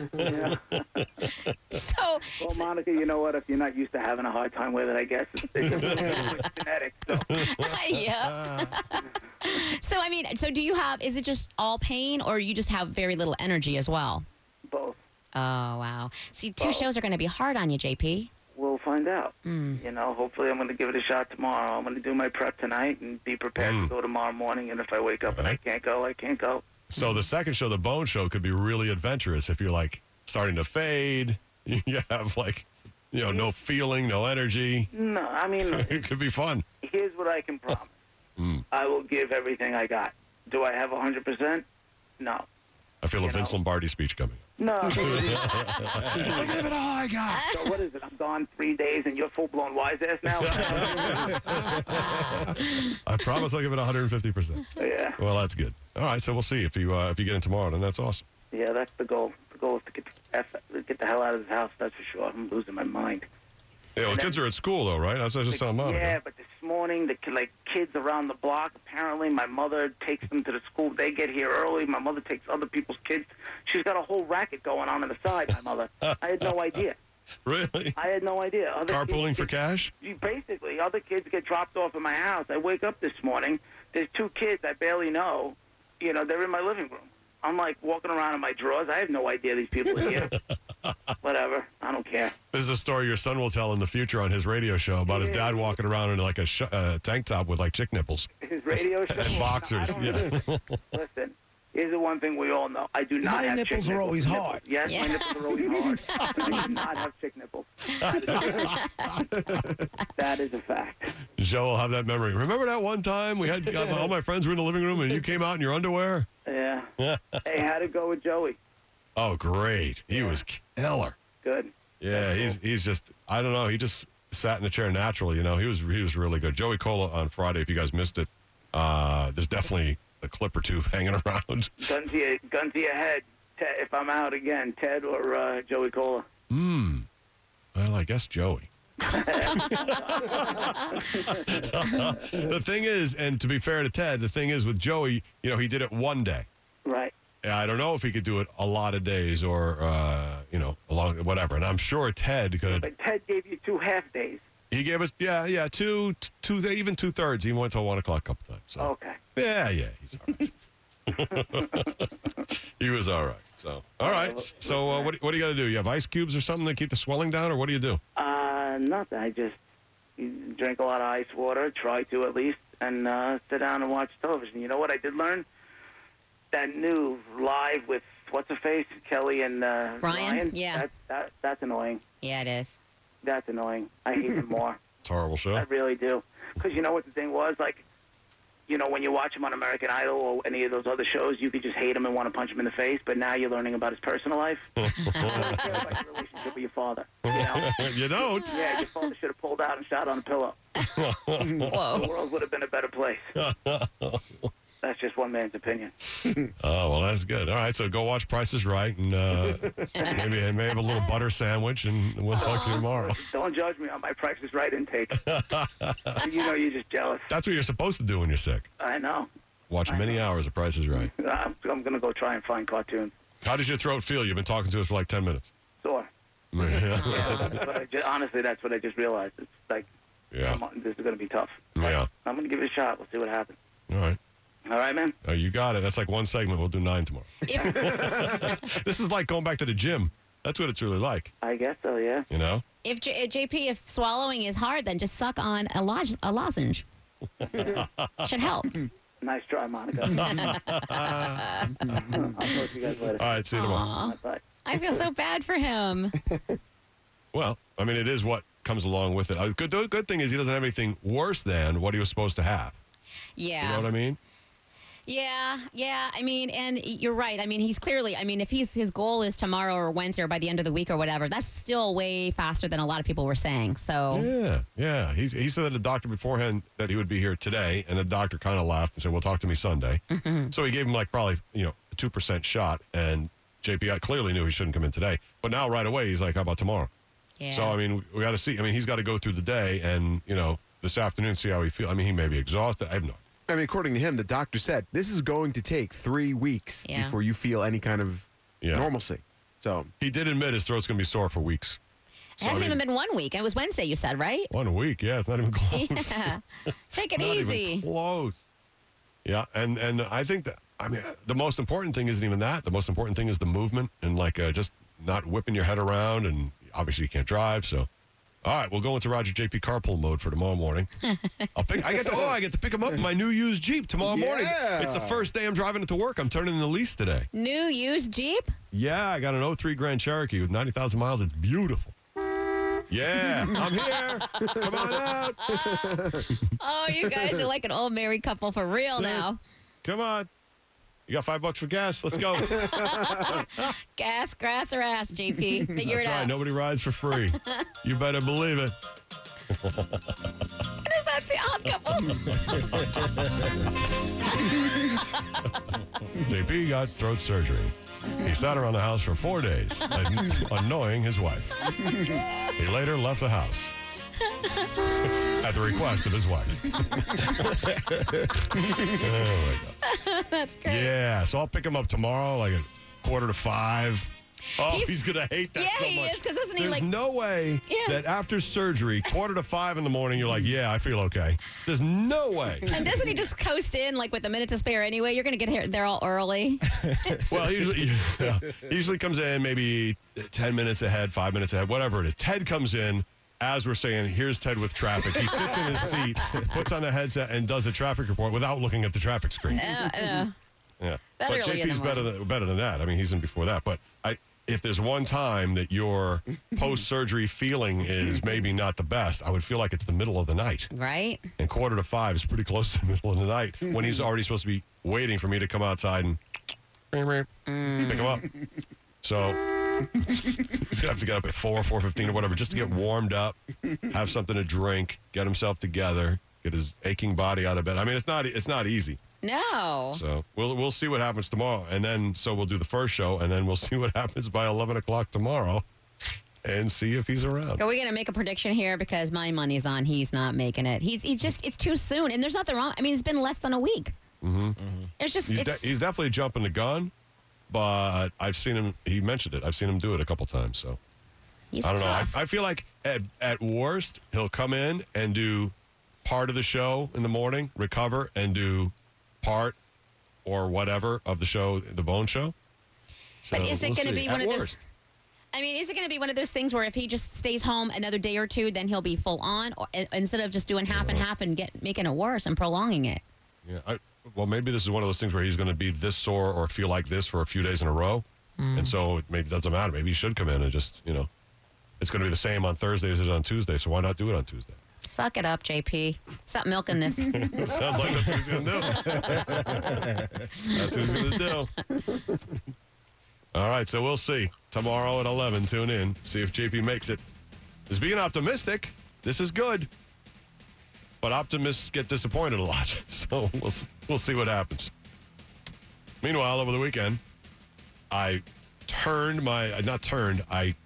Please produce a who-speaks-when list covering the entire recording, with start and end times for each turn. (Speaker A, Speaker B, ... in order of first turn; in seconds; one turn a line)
Speaker A: 0.2-1.0
Speaker B: 0.2-1.5
Speaker C: 1.7-2.6
Speaker A: 2.4-7.3
Speaker B: 5.7-6.3
Speaker C: 7.3-14.2
Speaker B: 7.4-8.6
Speaker A: 14.7-15.0
Speaker C: 15.3-18.3
Speaker A: 16.6-16.9
Speaker A: 18.5-26.6
Speaker C: 19.4-19.8
Speaker B: 23.6-23.9
Speaker B: 25.2-25.6
Speaker B: 26.9-34.9
Speaker A: 34.9-35.9
Speaker B: 35.6-36.6
Speaker A: 36.8-38.0
Speaker B: 38.4-38.6
Speaker A: 38.7-41.6
Speaker A: 42.2-42.5
Speaker B: 43.0-47.4
Speaker A: 43.2-43.6
Speaker A: 44.6-45.4
Speaker D: 46.1-47.4
Speaker C: 47.3-47.6
Speaker A: 47.5-51.4
Speaker B: 50.3-58.2
Speaker C: 51.8-53.0
Speaker A: 54.8-55.2
Speaker A: 58.5-63.2
Speaker B: 64.0-66.2
Speaker A: 64.0-64.4
Speaker A: 65.5-77.0
Speaker B: 77.4-78.0
Speaker A: 77.9-90.3
Speaker B: 78.9-79.9
Speaker B: 89.9-90.9
Speaker A: 91.2-92.3
Speaker B: 92.5-98.3
Speaker A: 95.0-95.7
Speaker A: 98.4-108.8
Speaker B: 99.1-100.8
Speaker D: 103.2-104.6
Speaker C: 104.8-106.6
Speaker B: 108.0-108.8
Speaker C: 108.6-109.1
Speaker D: 109.4-109.8
Speaker A: 110.1-111.2
Speaker B: 111.3-116.3
Speaker A: 116.5-116.9
Speaker B: 117.0-117.4
Speaker A: 117.4-118.6
Speaker B: 119.2-121.2
Speaker A: 120.1-120.4
Speaker A: 121.4-122.6
Speaker B: 122.0-131.7
Speaker A: 131.8-136.2
Speaker B: 136.5-137.1
Speaker B: 137.7-138.7
Speaker A: 139.1-139.7
Speaker B: 139.4-146.4
Speaker A: 146.8-147.1
Speaker B: 147.4-152.9
Speaker A: 152.7-154.4
Speaker B: 154.7-160.5
Speaker A: 158.8-159.2
Speaker B: 161.1-162.1
Speaker A: 161.5-161.8
Speaker B: 162.8-168.0
Speaker A: 164.0-165.1
Speaker A: 168.2-169.6
Speaker A: 170.2-175.4
Speaker A: 176.5-182.0
Speaker C: 180.0-180.8
Speaker C: 182.2-182.8
Speaker A: 183.2-184.8
Speaker B: 185.0-185.7
Speaker A: 185.5-187.8
Speaker A: 188.7-197.8
Speaker B: 194.8-195.8
Speaker C: 195.1-195.4
Speaker B: 197.3-198.6
Speaker C: 198.2-198.8
Speaker A: 198.5-200.6
Speaker B: 200.9-202.0
Speaker C: 201.6-202.1
Speaker A: 201.9-203.3
Speaker B: 203.3-204.5
Speaker A: 204.8-206.1
Speaker B: 206.6-213.2
Speaker A: 209.9-210.4
Speaker C: 212.3-212.8
Speaker A: 212.4-215.3
Speaker B: 215.2-216.3
Speaker A: 216.2-217.3
Speaker B: 217.3-218.7
Speaker A: 218.8-219.3
Speaker B: 219.7-221.1
Speaker A: 219.8-220.2
Speaker A: 220.9-223.1
Speaker B: 223.4-225.5
Speaker A: 225.8-226.1
Speaker B: 226.5-227.6
Speaker C: 226.6-227.6
Speaker A: 227.0-229.9
Speaker B: 230.3-230.6
Speaker A: 230.4-233.6
Speaker B: 231.8-232.1
Speaker B: 233.9-234.2
Speaker A: 234.7-235.1
Speaker B: 235.2-241.3
Speaker C: 237.5-237.8
Speaker D: 237.6-238.5
Speaker A: 241.4-242.3
Speaker B: 242.3-242.6
Speaker C: 242.8-246.8
Speaker B: 247.5-248.3
Speaker C: 248.2-248.8
Speaker A: 249.2-250.4
Speaker B: 250.2-251.7
Speaker C: 250.4-251.8
Speaker A: 251.9-254.6
Speaker B: 253.2-253.8
Speaker C: 253.5-256.1
Speaker B: 257.3-262.8
Speaker C: 263.4-263.9
Speaker B: 263.6-264.2
Speaker C: 265.1-274.3
Speaker B: 274.1-280.0
Speaker C: 280.1-280.5
Speaker B: 280.5-286.9
Speaker C: 287.4-287.8
Speaker B: 287.5-293.2
Speaker D: 293.5-299.9
Speaker C: 296.8-297.2
Speaker B: 298.6-298.9
Speaker B: 300.0-301.8
Speaker B: 302.4-302.8
Speaker C: 302.4-304.5
Speaker B: 304.5-306.3
Speaker C: 305.7-306.4
Speaker C: 306.9-307.9
Speaker B: 307.1-308.4
Speaker B: 309.2-317.9
Speaker B: 318.4-320.9
Speaker C: 321.1-321.5
Speaker B: 321.5-327.3
Speaker D: 322.0-322.3
Speaker D: 324.0-325.3
Speaker C: 327.3-328.5
Speaker B: 328.7-331.9
Speaker B: 332.9-335.5
Speaker C: 334.3-334.6
Speaker C: 335.4-336.1
Speaker D: 335.4-336.3
Speaker C: 336.6-339.4
Speaker B: 338.9-339.2
Speaker B: 339.8-340.3
Speaker B: 341.1-343.7
Speaker D: 342.3-343.3
Speaker C: 342.5-346.3
Speaker B: 345.8-348.7
Speaker C: 347.3-347.7
Speaker B: 349.5-350.0
Speaker C: 350.8-352.6
Speaker B: 352.1-353.3
Speaker C: 354.3-354.9
Speaker B: 356.1-361.7
Speaker B: 362.6-363.7
Speaker C: 364.2-364.7
Speaker B: 365.2-367.8
Speaker B: 368.6-369.7
Speaker C: 369.8-370.9
Speaker B: 370.6-382.8
Speaker C: 374.6-374.9
Speaker C: 375.5-376.9
Speaker C: 377.7-378.0
Speaker C: 382.7-387.2
Speaker B: 387.3-399.8
Speaker C: 399.5-400.3
Speaker B: 400.8-410.7
Speaker C: 401.2-402.1
Speaker C: 410.7-411.3
Speaker B: 411.4-416.2
Speaker B: 416.9-417.3
Speaker C: 417.4-418.2
Speaker B: 417.8-418.3
Speaker B: 419.0-419.4
Speaker B: 420.4-423.4
Speaker B: 423.9-429.0
Speaker C: 429.2-430.0
Speaker B: 429.9-435.6
Speaker B: 436.4-437.6
Speaker C: 437.6-443.9
Speaker B: 444.2-444.6
Speaker C: 445.0-445.7
Speaker B: 445.3-446.9
Speaker B: 447.5-450.8
Speaker C: 451.5-452.1
Speaker B: 451.6-459.6
Speaker B: 460.2-462.3
Speaker B: 463.2-464.6
Speaker C: 463.3-464.6
Speaker C: 465.3-473.0
Speaker B: 470.7-471.1
Speaker B: 473.4-481.1
Speaker C: 478.4-478.7
Speaker B: 481.8-484.6
Speaker C: 484.9-487.2
Speaker B: 487.1-491.5
Speaker D: 488.7-489.6
Speaker B: 493.3-497.0
Speaker B: 497.7-499.7
Speaker B: 501.0-504.7
Speaker B: 506.0-507.0
Speaker B: 507.9-510.5